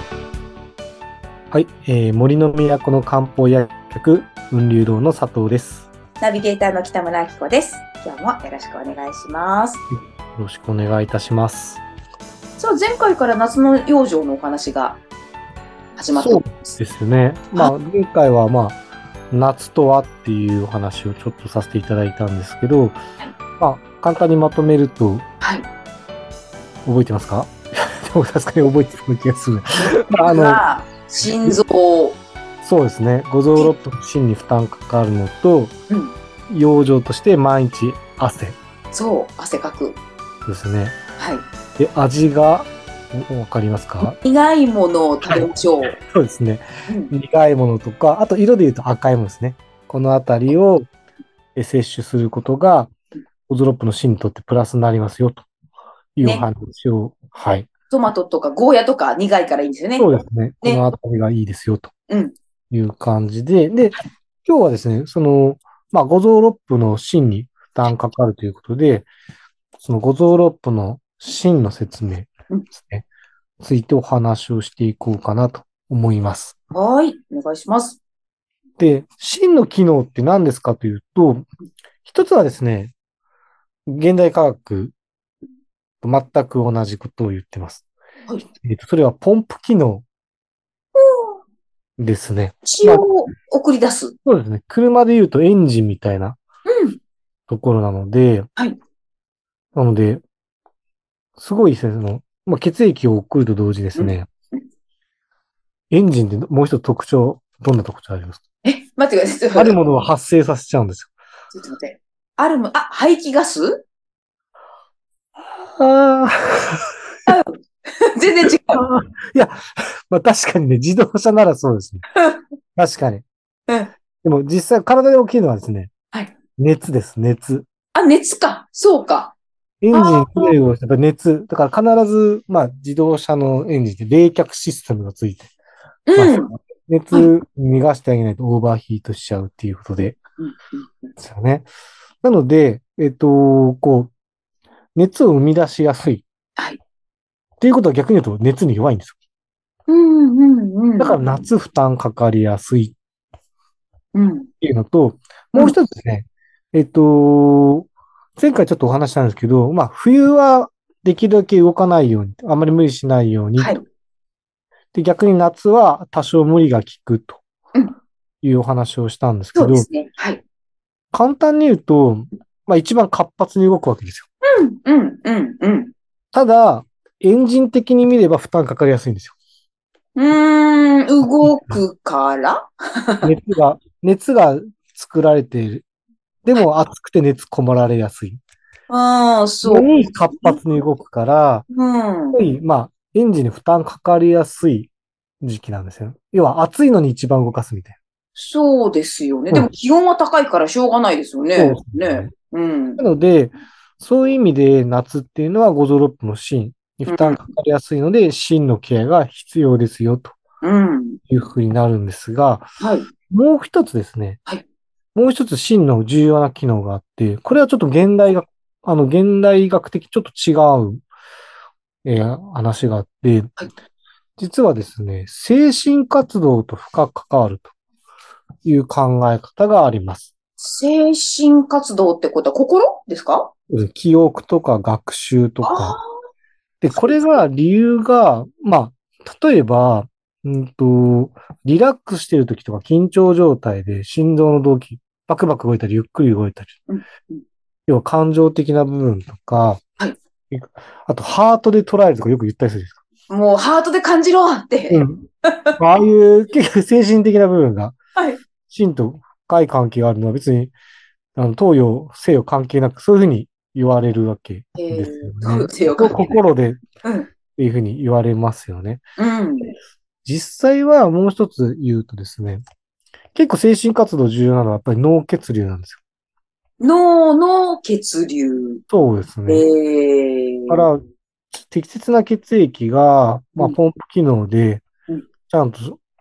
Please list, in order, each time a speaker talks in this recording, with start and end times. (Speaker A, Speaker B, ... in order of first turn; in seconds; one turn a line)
Speaker A: 1.5-5.9
Speaker B: 6.2-9.8
Speaker A: 9.9-11.8
Speaker B: 12.6-15.0
Speaker B: 15.9-16.8
Speaker A: 16.1-18.8
Speaker A: 19.3-23.0
Speaker A: 23.6-25.2
Speaker B: 25.4-25.7
Speaker A: 26.9-30.6
Speaker B: 30.2-32.2
Speaker A: 31.2-31.6
Speaker A: 32.6-35.8
Speaker B: 35.9-36.1
Speaker A: 36.5-38.6
Speaker B: 38.9-40.0
Speaker A: 40.5-41.0
Speaker B: 41.2-41.5
Speaker A: 41.8-44.2
Speaker B: 44.0-46.0
Speaker A: 45.2-50.9
Speaker B: 46.9-47.1
Speaker A: 51.5-52.9
Speaker A: 53.5-55.5
Speaker A: 56.1-57.7
Speaker B: 57.9-60.1
Speaker A: 60.0-61.9
Speaker B: 62.1-62.3
Speaker A: 62.7-69.1
Speaker A: 69.8-73.0
Speaker A: 73.6-76.5
Speaker B: 76.7-78.0
Speaker A: 78.8-81.5
Speaker A: 82.0-82.9
Speaker A: 83.8-84.9
Speaker A: 86.0-87.8
Speaker A: 88.6-90.0
Speaker B: 90.9-91.4
Speaker A: 92.0-93.1
Speaker B: 92.6-94.1
Speaker A: 94.2-96.4
Speaker B: 96.7-97.0
Speaker A: 97.5-98.5
Speaker A: 99.7-100.2
Speaker A: 101.4-104.3
Speaker B: 104.0-104.6
Speaker A: 105.9-108.4
Speaker B: 108.6-109.8
Speaker A: 109.5-111.1
Speaker B: 111.5-113.8
Speaker A: 115.6-116.9
Speaker B: 117.3-118.8
Speaker A: 118.6-122.1
Speaker B: 122.2-122.4
Speaker A: 122.8-123.2
Speaker A: 124.2-125.9
Speaker A: 126.6-127.7
Speaker B: 127.9-129.3
Speaker A: 129.8-135.5
Speaker B: 129.9-130.6
Speaker B: 136.1-136.5
Speaker A: 136.2-140.2
Speaker B: 140.4-141.1
Speaker A: 141.2-141.7
Speaker A: 142.2-144.1
Speaker A: 144.9-146.2
Speaker A: 147.6-149.2
Speaker B: 149.9-151.4
Speaker A: 151.0-153.0
Speaker B: 154.1-154.5
Speaker A: 154.6-163.8
Speaker A: 164.9-167.4
Speaker A: 168.4-169.9
Speaker B: 169.6-170.4
Speaker A: 171.1-174.3
Speaker B: 174.5-175.9
Speaker A: 176.3-179.3
Speaker B: 180.2-183.3
Speaker A: 181.2-181.7
Speaker A: 183.2-185.9
Speaker A: 186.4-188.4
Speaker B: 188.9-190.6
Speaker A: 189.6-191.7
Speaker B: 191.7-192.4
Speaker A: 192.3-198.0
Speaker B: 198.3-203.0
Speaker A: 201.6-202.3
Speaker A: 203.0-210.4
Speaker B: 207.1-207.4
Speaker B: 210.6-211.2
Speaker A: 211.3-212.7
Speaker B: 212.8-213.1
Speaker A: 213.3-214.4
Speaker A: 215.2-221.1
Speaker A: 222.0-223.5
Speaker A: 224.4-227.7
Speaker A: 228.6-230.3
Speaker B: 230.6-233.5
Speaker A: 233.7-236.0
Speaker B: 235.6-236.1
Speaker A: 236.8-246.9
Speaker B: 236.9-237.4
Speaker B: 246.9-247.4
Speaker A: 247.9-249.8
Speaker A: 250.5-253.0
Speaker B: 253.3-255.7
Speaker A: 254.9-255.3
Speaker A: 255.8-258.0
Speaker A: 258.6-260.7
Speaker A: 261.4-266.8
Speaker B: 264.8-266.4
Speaker B: 267.0-267.3
Speaker A: 267.5-269.0
Speaker B: 269.2-269.7
Speaker A: 270.2-272.6
Speaker A: 273.3-276.0
Speaker B: 276.8-278.8
Speaker A: 278.9-279.6
Speaker B: 279.5-280.8
Speaker A: 280.7-284.9
Speaker A: 285.5-286.0